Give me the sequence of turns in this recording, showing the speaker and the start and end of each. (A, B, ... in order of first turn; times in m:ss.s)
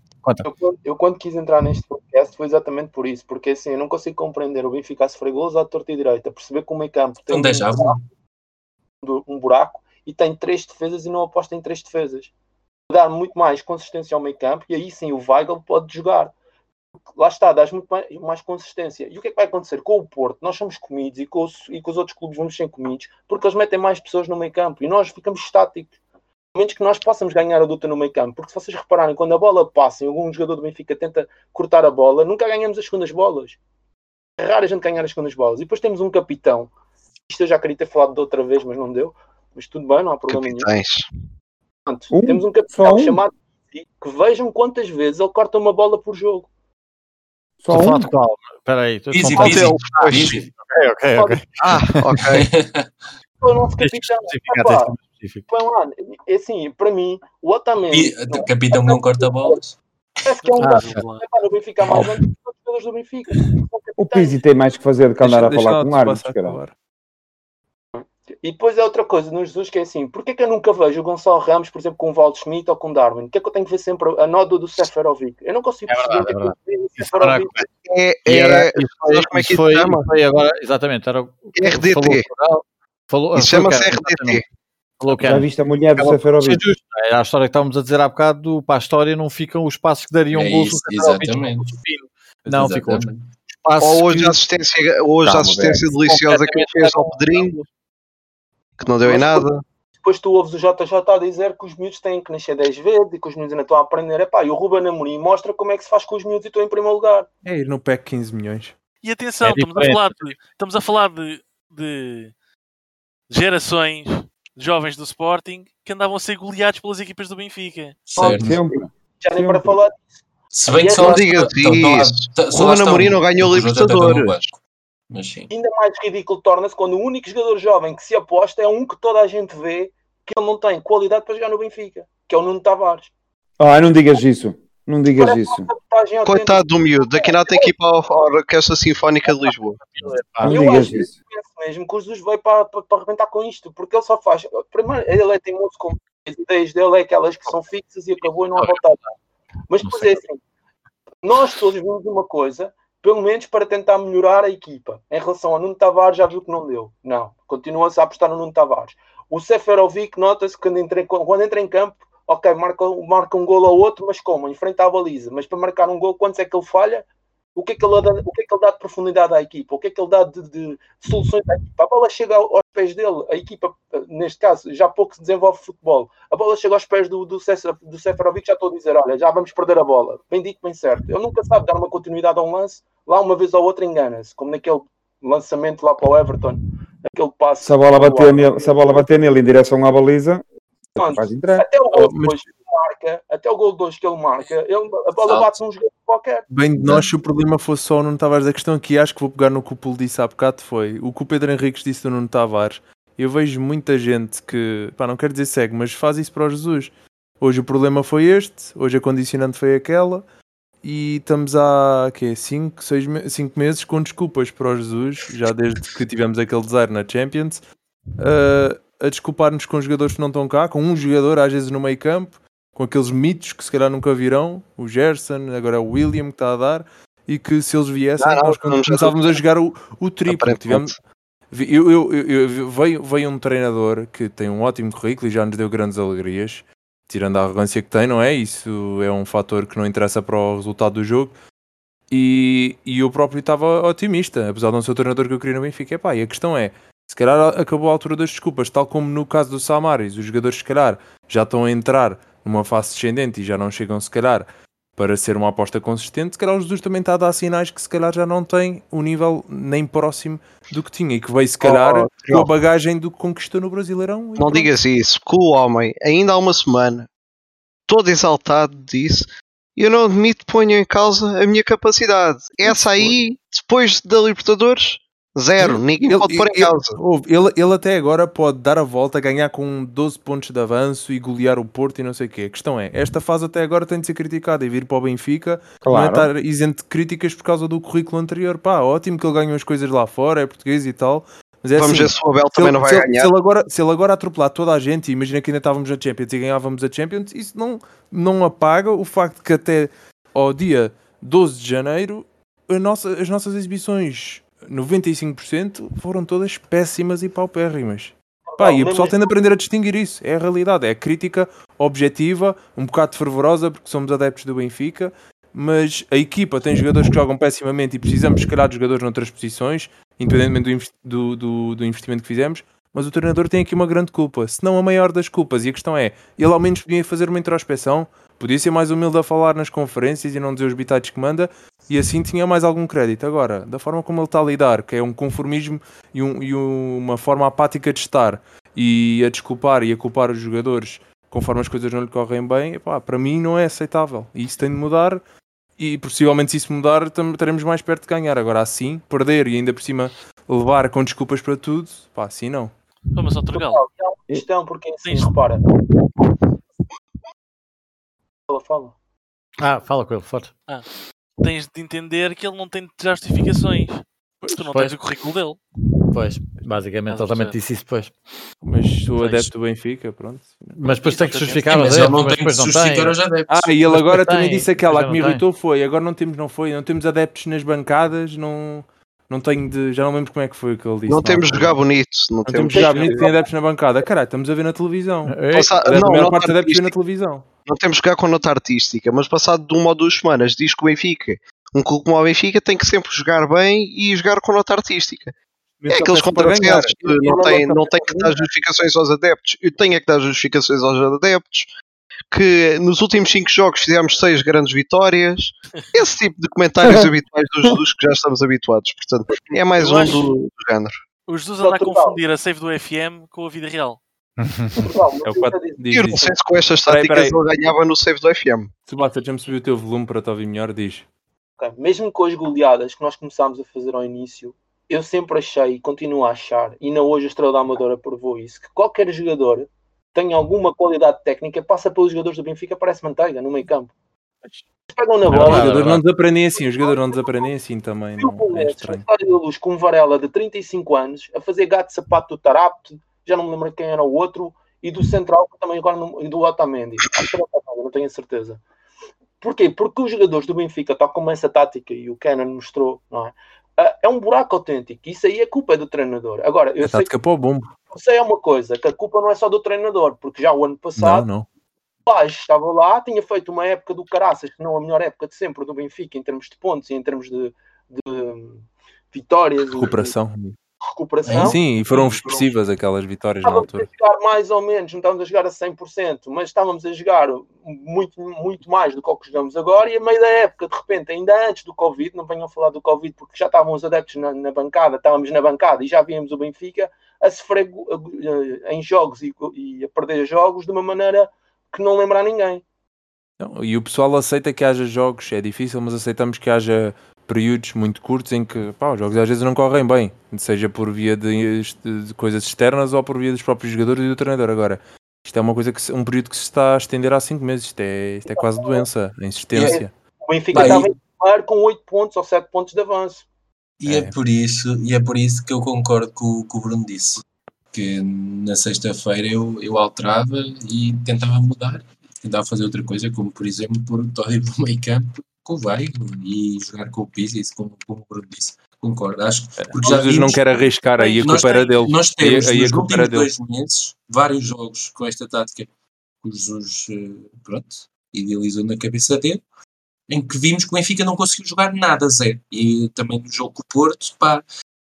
0:00.4-0:08.0 A
0:07.3-0:08.1 B
0:09.0-0:12.3 A
0:12.9-0:16.3 A
0:17.2-0:26.0 A
0:26.5-0:33.6 A
0:34.4-0:36.7 A
0:37.3-0:40.7 A
0:40.3-0:41.1 C
0:41.9-0:46.5 A
0:42.1-0:43.2 D
0:47.6-0:48.1 D
0:47.7-0:52.2 E
0:49.1-0:50.5 B
0:49.4-0:50.4 C
0:51.2-0:51.4 A
0:51.6-0:52.5 C
0:52.3-0:52.9 B
0:53.4-0:55.0 A
0:53.8-0:55.5 E
0:55.5-0:59.6 A
0:57.9-0:59.8 B
1:00.2-1:04.4 A
1:00.4-1:01.2 F
1:00.6-1:01.0 E
1:04.0-1:06.6 D
1:05.2-1:06.7 G
1:08.0-1:17.7 A
1:15.9-1:17.7 E
1:17.9-1:20.1 C
1:18.3-1:24.4 E
1:21.6-1:22.2 C
1:23.3-1:24.4 C
1:25.0-1:33.1 E
1:25.2-1:26.6 D
1:30.3-1:31.8 B
1:32.5-1:33.3 B
1:33.6-1:34.4 E
1:33.8-1:37.6 C
1:35.2-1:37.7 E
1:38.8-1:39.6 C
1:39.0-1:39.4 A
1:40.0-1:47.3 A
1:47.4-1:48.8 G
1:49.0-1:52.3 F
1:49.4-1:50.2 E
1:53.3-1:58.0 F
1:58.1-1:58.6 B
1:58.2-1:58.5 A
1:58.4-1:59.8 D
1:59.2-2:00.0 A
2:00.5-2:04.6 B
2:00.7-2:01.2 A
2:01.0-2:04.4 C
2:05.1-2:05.5 B
2:05.5-2:13.1 A
2:13.6-2:15.7 D
2:15.2-2:17.7 A
2:16.2-2:19.8 C
2:19.3-2:20.6 E
2:20.4-2:21.1 D
2:20.4-2:29.0 A
2:29.7-2:30.4 A
2:29.8-2:30.1 E
2:31.2-3:08.9 A
3:07.6-3:10.4 D
3:11.0-3:16.5 A
3:11.0-3:11.7 D
3:11.9-3:12.4 G
3:15.2-3:15.6 B
3:16.5-3:30.2 G
3:30.8-3:37.6 G
3:38.2-3:51.0 G
3:48.2-3:49.4 C
3:50.3-3:51.0 C
3:51.5-4:01.4 G
4:02.1-4:24.8 G
4:21.6-4:22.5 C
4:24.4-4:27.1 C
4:27.9-4:37.0 C
4:32.6-4:33.1 G
4:35.6-5:45.2 G
4:45.8-4:46.3 D
4:51.8-4:53.3 C
5:08.5-5:09.2 A
5:45.8-5:52.7 G
5:53.2-5:53.8 F
5:53.5-5:55.7 A
5:55.0-5:55.4 F
5:58.5-5:59.0 A
5:59.6-6:00.5 E
6:01.4-6:05.6 F
6:04.5-6:05.0 E
6:06.1-6:08.2 E
6:07.1-6:07.6 F
6:08.6-6:11.0 G
6:09.2-6:09.5 F
6:10.8-6:13.2 E
6:11.0-6:11.8 F
6:11.7-6:13.7 B
6:13.5-6:21.8 G
6:13.9-6:15.4 E
6:21.1-6:23.4 C
6:22.4-6:27.5 G
6:22.8-6:23.4 A
6:25.3-6:25.7 E
6:25.5-6:26.9 C
6:27.7-6:35.3 C
6:35.8-6:38.4 G
6:35.9-6:41.7 C
6:42.3-6:51.0 C
6:49.8-6:50.3 F
6:51.3-6:54.0 F
6:51.6-6:52.2 A
6:54.4-6:54.9 E
6:54.8-6:56.2 A
6:55.2-6:57.4 G
6:55.9-6:58.7 C
6:58.9-7:01.1 G
7:01.6-7:13.9 A
7:14.9-7:15.9 A
7:15.3-7:19.1 G
7:15.3-7:16.0 E
7:16.8-7:17.2 A
7:18.2-7:28.6 A
7:29.4-7:37.1 A
7:36.8-7:37.8 G
7:37.9-7:41.2 A
7:41.0-7:41.5 G
7:42.1-7:50.1 A
7:49.7-7:50.6 G
7:50.8-7:52.4 A
7:51.2-7:52.4 B
7:51.4-7:53.9 G
7:53.4-8:12.6 A
8:13.4-8:29.9 G
8:28.3-8:28.8 A
8:29.5-8:29.8 B
8:29.6-8:33.2 A
8:30.5-8:30.9 B
8:33.8-8:50.4 B
8:33.9-8:34.2 G
8:49.6-8:53.3 G
8:51.0-8:51.8 A
8:51.2-8:55.7 B
8:56.2-8:59.4 B
9:00.1-9:04.4 B